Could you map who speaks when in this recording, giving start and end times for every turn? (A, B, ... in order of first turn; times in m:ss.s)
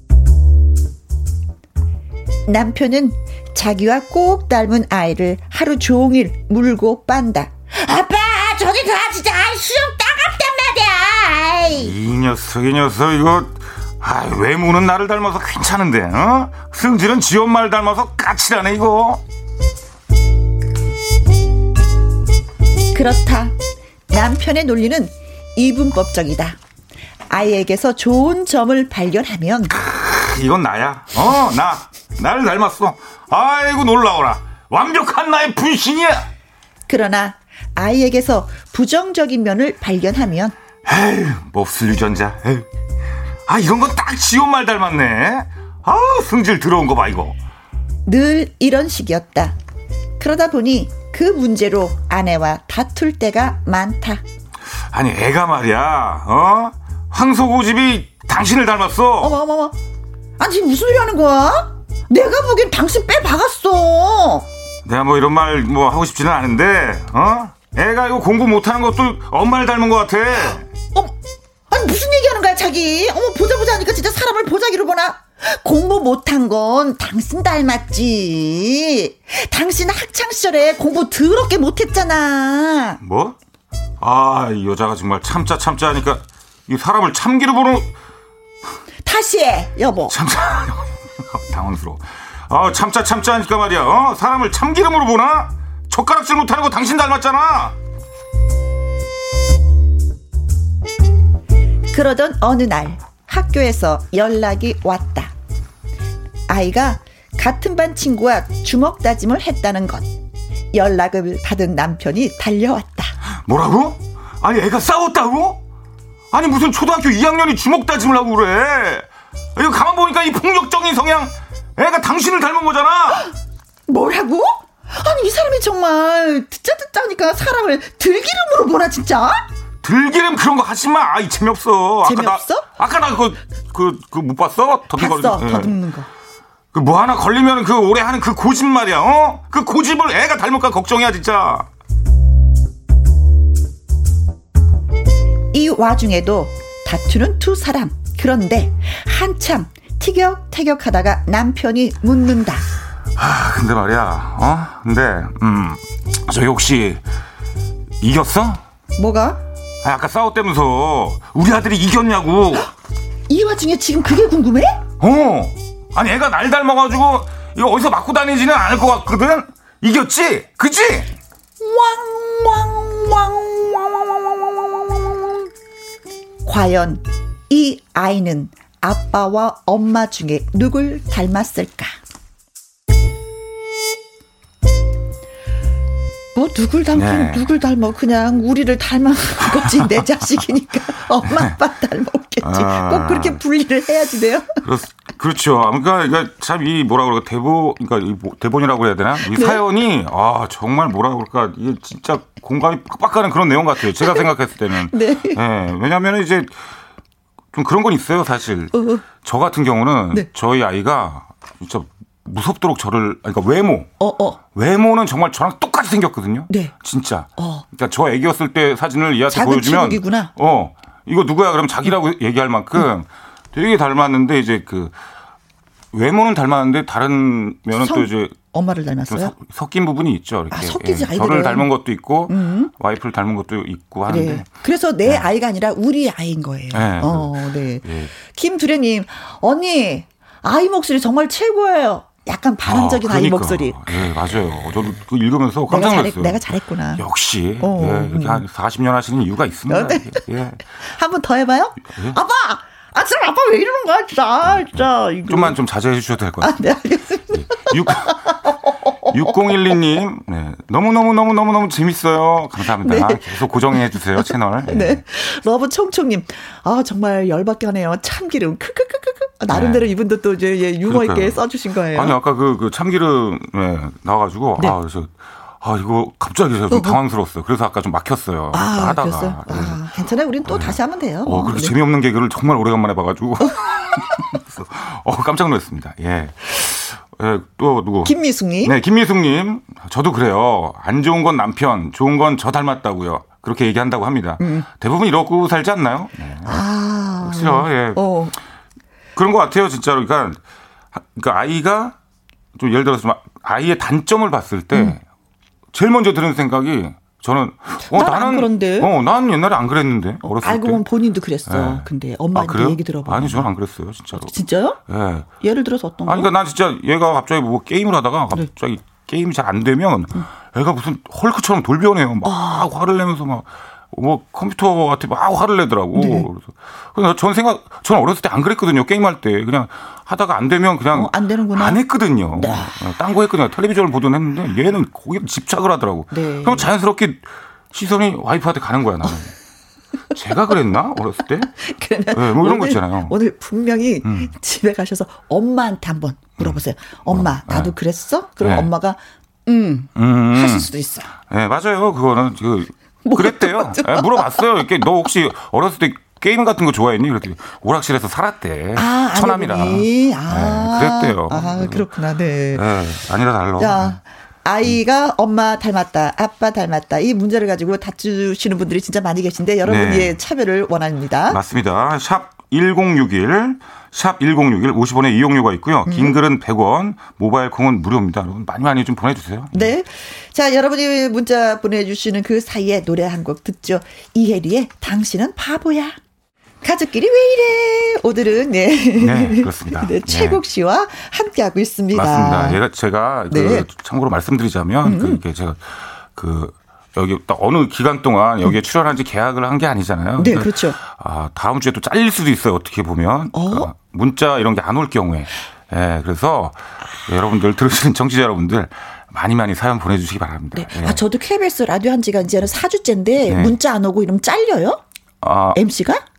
0:02.5-0:11.9 A
0:11.8-0:19.2 B
0:22.9-0:23.6 A
0:24.1-0:26.6 A
0:27.3-0:29.7 A
0:29.7-0:36.3 B
0:36.9-0:40.5 A
0:40.8-0:42.7 B
0:43.5-0:47.4 B
0:48.1-0:49.6 A
0:50.2-0:54.2 A
0:54.9-0:59.4 B
0:59.2-0:59.8 A
1:00.4-1:04.5 A
1:04.9-1:10.6 B
1:11.7-1:23.0 A
1:23.0-1:23.4 B
1:24.0-1:27.9 B
1:29.0-1:30.1 A
1:30.1-1:37.8 B
1:41.9-1:45.3 A
1:46.5-1:50.1 A
1:50.7-1:53.2 A
1:53.4-1:55.6 B
1:56.3-2:03.3 B
2:03.9-2:09.4 A
2:09.8-2:15.8 B
2:12.0-2:12.7 A
2:15.0-2:16.1 A
2:16.7-2:21.7 B
2:25.5-2:32.6 A
2:33.2-2:37.0 B
2:38.0-2:38.6 B
2:39.0-2:39.4 A
2:39.8-2:42.7 B
2:43.3-2:44.8 A
2:45.0-2:51.1 B
2:51.6-2:55.5 A
2:56.4-3:02.0 A
3:06.4-3:14.5 A
3:06.9-3:07.5 B
3:11.2-3:11.6 B
3:12.4-3:13.4 B
3:14.6-3:26.5 B
3:19.3-3:19.6 A
3:24.0-3:24.3 A
3:24.9-3:25.4 A
3:27.5-3:33.9 B
3:28.7-3:29.0 A
3:34.0-3:34.4 A
3:34.5-3:45.0 B
3:37.4-3:37.6 A
3:39.3-3:40.3 A
3:45.9-3:48.4 B
3:47.8-3:49.3 A
3:49.1-3:54.5 B
3:50.5-3:51.7 A
3:52.3-3:52.7 A
3:54.1-4:04.1 A
3:56.7-3:58.1 B
4:02.6-4:06.4 B
4:05.7-4:07.0 A
4:07.0-4:10.7 B
4:07.6-4:08.4 A
4:09.7-4:10.2 A
4:10.8-4:15.6 A
4:14.6-4:16.6 B
4:16.4-4:18.1 A
4:17.3-4:25.0 B
4:19.0-4:19.7 A
4:22.8-4:32.2 A
4:29.5-4:29.9 B
4:30.8-4:39.8 B
4:36.7-4:37.0 A
4:38.5-4:41.8 A
4:40.4-4:56.6 B
4:48.0-4:48.7 A
4:54.4-4:54.7 A
4:56.4-4:58.4 A
4:57.2-4:58.0 B
4:59.2-5:00.4 B
5:00.9-5:02.0 B
5:02.6-5:05.0 B
5:05.7-5:10.9 B
5:07.9-5:08.9 A
5:10.2-5:13.5 A
5:11.5-5:15.3 B
5:14.1-5:14.8 A
5:15.4-5:16.3 A
5:16.1-5:39.3 B
5:22.2-5:22.6 A
5:25.9-5:26.3 A
5:30.9-5:31.8 A
5:32.3-5:32.8 A
5:36.1-5:36.7 A
5:40.1-5:41.5 B
5:41.5-5:51.1 A
5:42.1-5:43.2 B
5:44.0-5:44.3 B
5:46.4-5:47.7 B
5:48.4-5:48.7 B
5:50.0-6:01.9 B
5:53.0-5:54.6 A
5:58.8-6:02.6 A
6:02.5-6:04.0 B
6:03.6-6:11.4 A
6:09.6-6:10.2 B
6:11.3-6:19.8 B
6:15.9-6:16.2 A
6:19.5-6:26.0 A
6:26.6-6:32.6 A
6:29.0-6:30.4 B
6:31.9-6:51.0 B
6:33.3-6:33.7 A
6:34.8-6:35.2 A
6:40.2-6:40.8 A
6:43.3-6:43.7 A
6:50.5-6:54.8 A
6:53.3-6:53.6 B
6:55.2-6:55.6 B
6:55.5-6:56.0 A